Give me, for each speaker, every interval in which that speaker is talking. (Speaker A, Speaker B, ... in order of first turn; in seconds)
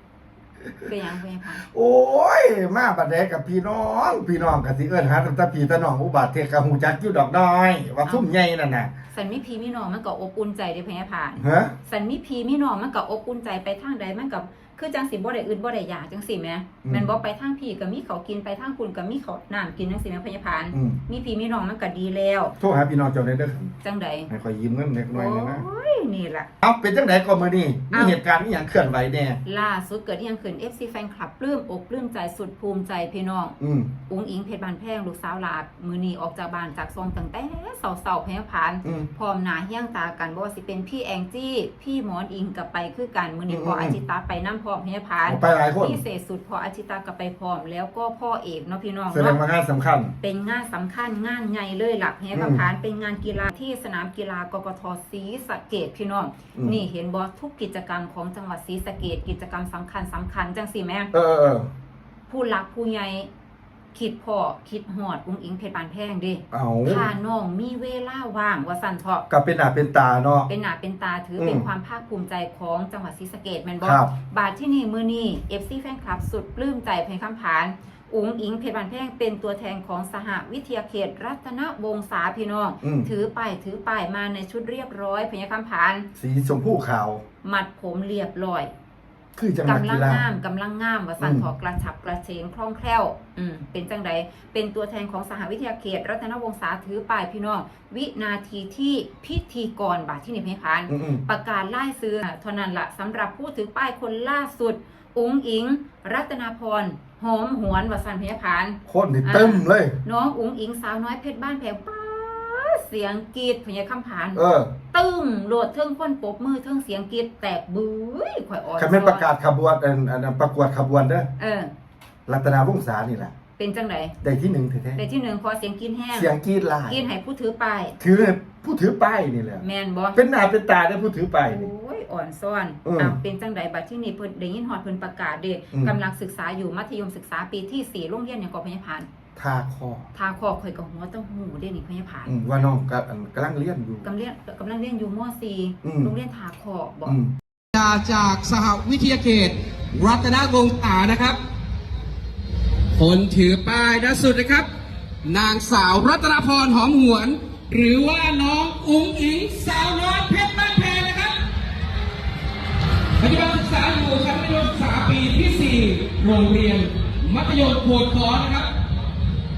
Speaker A: 0.8-1.6, 9.1-22.6, 23.8-24.3, 25.1-26.5, 27.9-28.2, 29.4-33.6, 34.1-49.4, 50.2-61.1, 62.3-63.3, 63.9-69.2, 70.5-86.1, 87.4-88.7, 89.7-114.4, 114.9-119.3, 121.4-121.7, 123.6-124.2, 125.0-126.3, 126.9-128.0, 129.6-130.2, 131.5-139.1, 140.2-142.3, 144.0-147.2
Speaker B: 1.6-8.9, 11.4-11.8, 16.8-17.1, 20.7-21.0, 22.6-23.7, 24.3-25.6, 26.6-29.4, 33.6-33.9, 38.8-39.1, 43.5-44.0, 45.2-46.0, 49.1-50.1, 52.3-52.6, 56.6-56.8, 61.1-61.7, 66.5-67.1, 69.3-70.5, 71.4-71.7, 73.8-74.1, 82.8-83.1, 86.2-87.2, 89.4-90.3, 91.2-91.5, 100.9-101.2, 108.9-110.0, 114.3-114.7, 118.8-121.3, 122.3-123.3, 124.2-125.0, 126.1-127.0, 128.0-129.6, 130.2-131.7, 132.8-133.2, 139.4-140.1, 142.3-144.1, 145.8-146.2, 147.1-147.3
Speaker C: 147.7-151.4, 153.0-154.7, 155.2-161.4, 163.2-168.7